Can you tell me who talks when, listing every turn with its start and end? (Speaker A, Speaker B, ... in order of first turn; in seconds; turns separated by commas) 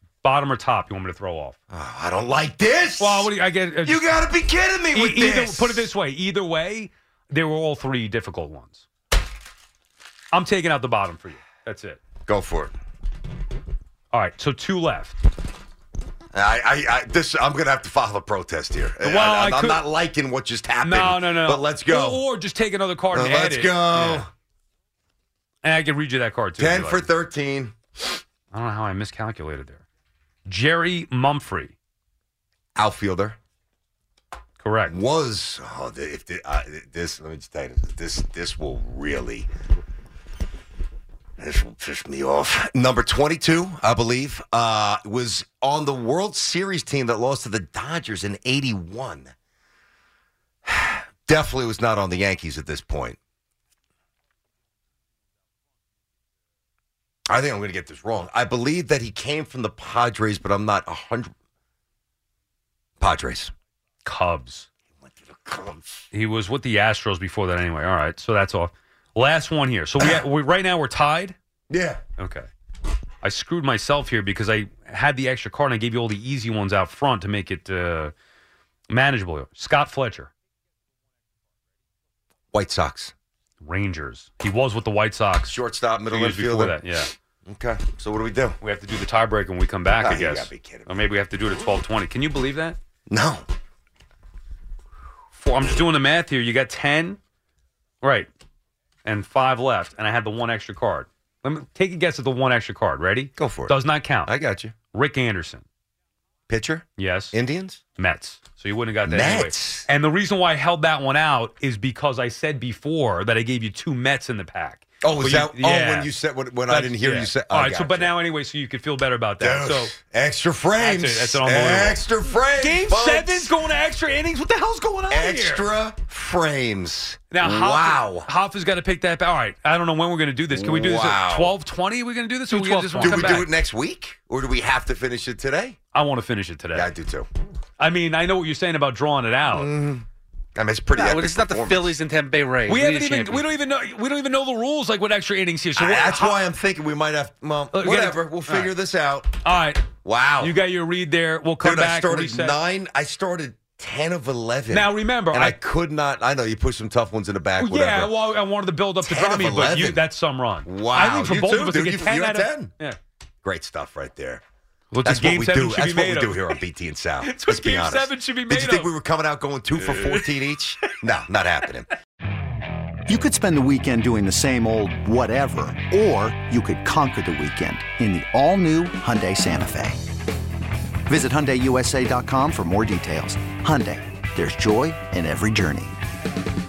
Speaker A: 0.2-1.6, Speaker B: 1.7-3.3, Speaker A: 3.0-4.0, Speaker B: 3.8-5.9, Speaker A: 4.9-8.9, Speaker A: 10.3-12.0, Speaker B: 12.3-12.8, Speaker A: 14.1-15.2, Speaker B: 16.3-22.2, Speaker A: 19.0-19.8, Speaker A: 20.8-24.3, Speaker B: 23.1-24.3, Speaker A: 25.6-27.1, Speaker B: 26.6-27.8, Speaker A: 28.5-29.8, Speaker A: 30.5-31.8, Speaker B: 32.8-33.4, Speaker A: 34.6-35.0, Speaker B: 34.9-39.5, Speaker B: 41.4-49.3, Speaker B: 50.6-53.2, Speaker B: 57.3-61.3, Speaker B: 63.0-63.5, Speaker A: 64.0-64.7, Speaker B: 65.0-66.0, Speaker A: 66.1-71.4, Speaker B: 71.7-72.0, Speaker A: 72.2-72.5, Speaker A: 73.2-78.1, Speaker A: 78.9-80.3, Speaker B: 82.5-83.1, Speaker A: 83.6-85.6, Speaker B: 85.5-86.8, Speaker A: 86.1-87.1, Speaker B: 87.5-88.6, Speaker A: 88.6-92.8, Speaker B: 90.0-91.0, Speaker B: 93.1-93.5, Speaker A: 95.3-97.2, Speaker A: 98.0-98.3, Speaker A: 99.0-104.3, Speaker B: 103.4-104.7, Speaker A: 104.9-105.7, Speaker B: 106.5-107.8, Speaker A: 107.0-107.3, Speaker A: 108.0-116.1, Speaker B: 109.1-109.9, Speaker B: 115.0-118.1, Speaker A: 116.7-119.9, Speaker B: 119.4-123.5, Speaker A: 120.8-122.0, Speaker A: 122.6-125.7, Speaker B: 125.1-128.3, Speaker A: 127.3-133.5, Speaker B: 130.5-131.6, Speaker C: 132.5-133.4, Speaker B: 133.0-135.8, Speaker A: 135.9-136.9, Speaker B: 136.7-137.3, Speaker A: 137.8-139.7, Speaker B: 139.5-142.0, Speaker C: 140.9-143.5, Speaker A: 142.7-146.4, Speaker B: 145.8-149.4, Speaker A: 147.7-148.7, Speaker A: 149.4-149.9, Speaker B: 150.0-150.6, Speaker A: 150.4-152.6, Speaker B: 151.6-158.2, Speaker A: 154.7-155.6, Speaker A: 157.6-163.0, Speaker B: 159.0-160.0, Speaker B: 160.7-162.7, Speaker B: 163.4-164.4, Speaker A: 164.9-166.6, Speaker B: 165.0-171.9, Speaker A: 167.2-168.9, Speaker A: 169.8-170.3, Speaker D: 173.1-180.0, Speaker D: 181.1-186.0